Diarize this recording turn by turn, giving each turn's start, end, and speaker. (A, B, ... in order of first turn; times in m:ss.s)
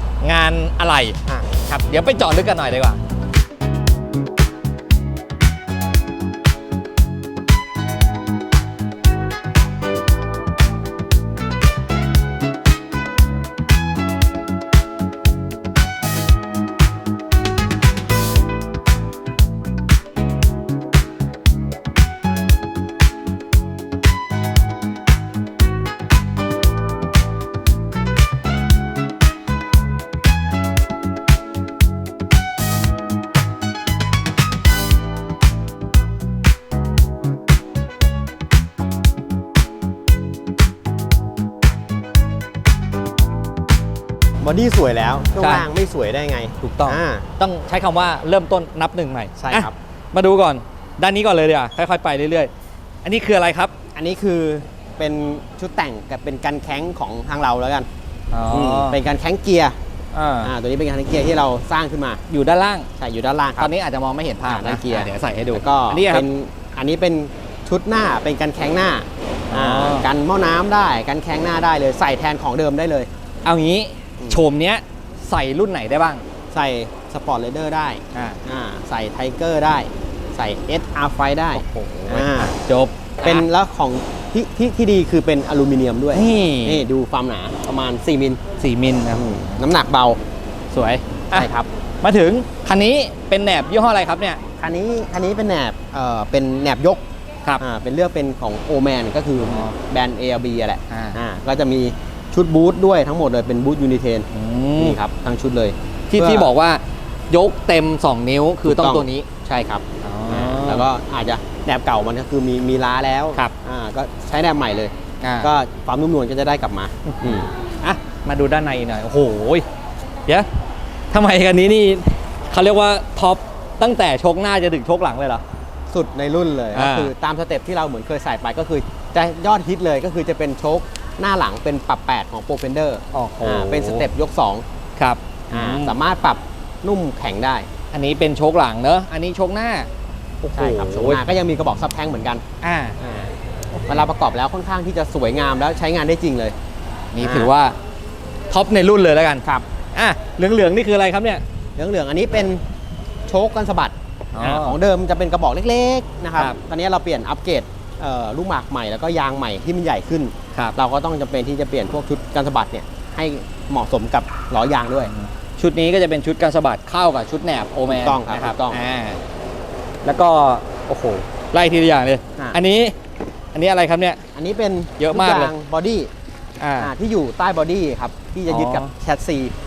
0:00.2-0:03.0 A
0:44.4-0:47.3 B
0:45.4-0:45.7 A
0:46.6-0:52.5 A
0:49.4-0:49.7 B
0:53.0-0:53.7 A
0:53.9-0:57.9 B
0:58.3-0:59.0 A
0:58.5-0:59.8 B
1:00.1-1:00.5 A
1:00.4-1:02.2 B
1:02.3-1:02.9 A
1:03.0-1:03.7 B
1:03.6-1:06.2 A
1:04.4-1:13.1 B
1:09.5-1:10.1 A
1:13.4-1:16.2 A
1:14.2-1:14.4 B
1:16.5-1:22.6 B
1:18.1-1:18.4 A
1:21.5-1:23.4 A
1:23.2-1:28.4 B
1:26.1-1:26.9 A
1:28.6-1:29.6 A
1:29.1-1:30.2 B
1:30.7-1:31.5 A
1:31.3-1:31.7 B
1:32.0-1:34.4 A
1:34.6-1:37.0 B
1:37.6-1:46.5 B
1:39.4-1:39.7 A
1:40.9-1:41.2 A
1:44.3-1:45.0 A
1:46.1-1:49.3 A
1:48.6-1:57.5 B
1:50.0-1:50.9 A
1:55.2-1:55.5 A
1:57.1-1:59.6 A
2:01.1-2:05.4 A
2:05.9-2:14.6 B
2:06.7-2:07.1 A
2:13.1-2:14.0 A
2:15.0-2:16.0 A
2:15.5-2:17.7 B
2:17.9-2:19.9 A
2:20.4-2:21.2 A
2:20.5-2:22.4 B
2:22.6-2:23.0 A
2:23.0-2:26.6 B
2:27.1-2:27.8 A
2:27.2-2:27.5 B
2:28.5-2:31.4 A
2:31.8-2:32.6 B
2:33.3-2:45.1 B
2:34.3-2:34.8 A
2:45.0-2:49.2 A
2:47.8-2:48.8 B
2:50.0-2:52.9 A
2:53.5-2:54.2 A
2:54.3-2:56.1 B
2:55.0-2:55.5 A
2:56.6-2:56.9 A
2:56.8-2:59.5 B
2:58.5-2:58.9 A